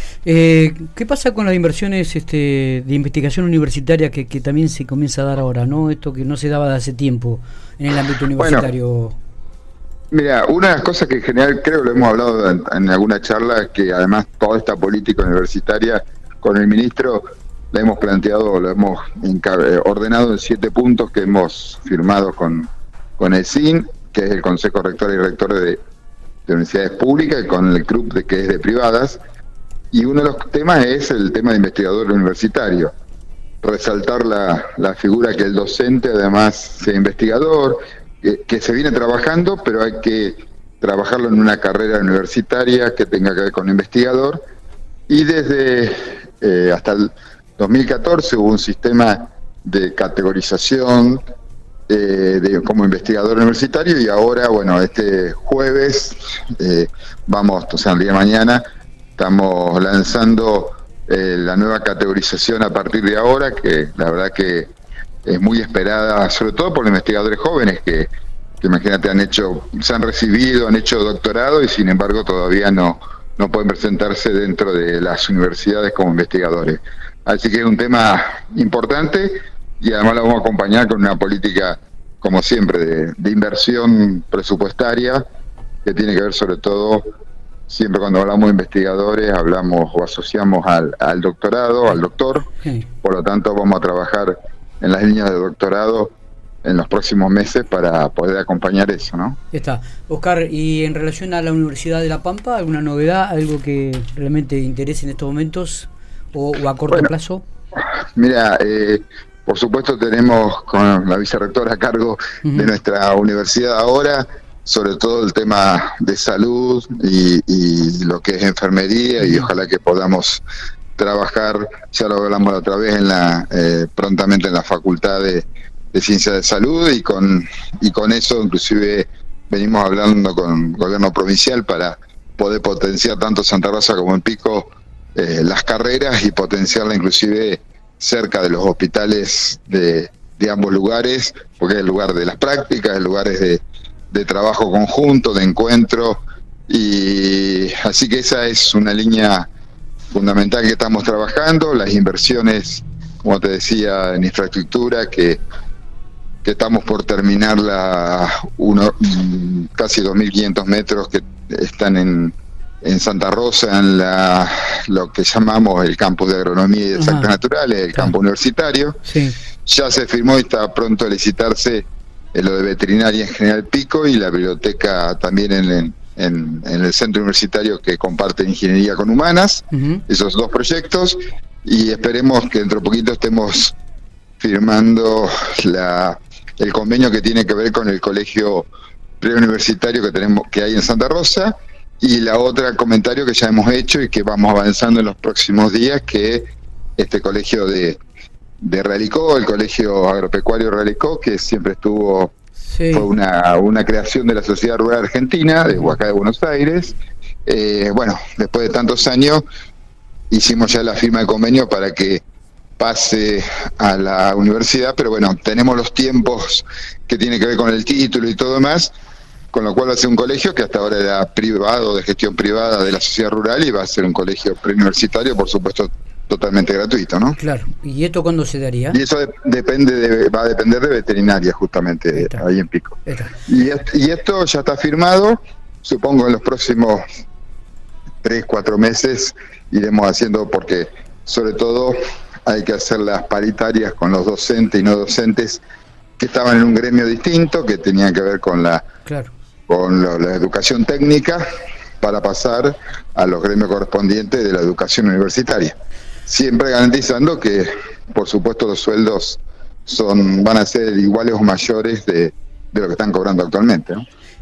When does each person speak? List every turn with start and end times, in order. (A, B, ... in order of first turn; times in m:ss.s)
0:00.2-0:09.2 A
0:08.4-0:08.7 B
0:10.1-0:25.8 B
0:26.5-0:29.2 B
0:29.9-0:32.9 B
0:33.6-0:44.4 B
0:45.1-0:51.2 B
0:51.9-0:58.6 B
0:59.2-1:04.7 B
1:05.2-1:08.1 B
1:08.6-1:25.2 B
1:25.8-1:27.0 B
1:27.7-1:32.5 B
1:32.6-1:32.9 A
1:33.0-1:36.1 B
1:36.6-1:39.4 B
1:39.5-1:47.4 A
1:47.8-2:00.4 B
1:52.4-1:52.7 A
1:59.2-1:59.5 A
2:01.0-2:29.5 B
2:30.1-2:35.4 B
2:36.4-2:49.0 B
2:47.0-2:47.3 A
2:49.0-2:49.4 A
2:49.6-3:03.7 B
2:59.7-3:00.0 A
3:04.4-3:08.7 B
3:09.2-3:18.0 B
3:18.6-3:22.3 B
3:22.7-3:23.1 A
3:22.9-3:26.9 B
3:25.7-3:26.0 A
3:27.4-3:29.4 B
3:30.3-3:32.2 B
3:32.8-3:38.9 B
3:39.5-3:47.4 B
3:47.4-3:49.0 A
3:48.9-3:57.0 B
3:52.1-3:52.4 A
3:53.1-3:53.3 A
3:58.2-4:05.6 B
4:06.2-4:08.8 B
4:09.0-4:09.3 A
4:09.7-4:11.4 B
4:12.0-4:15.7 B
4:16.3-4:24.0 B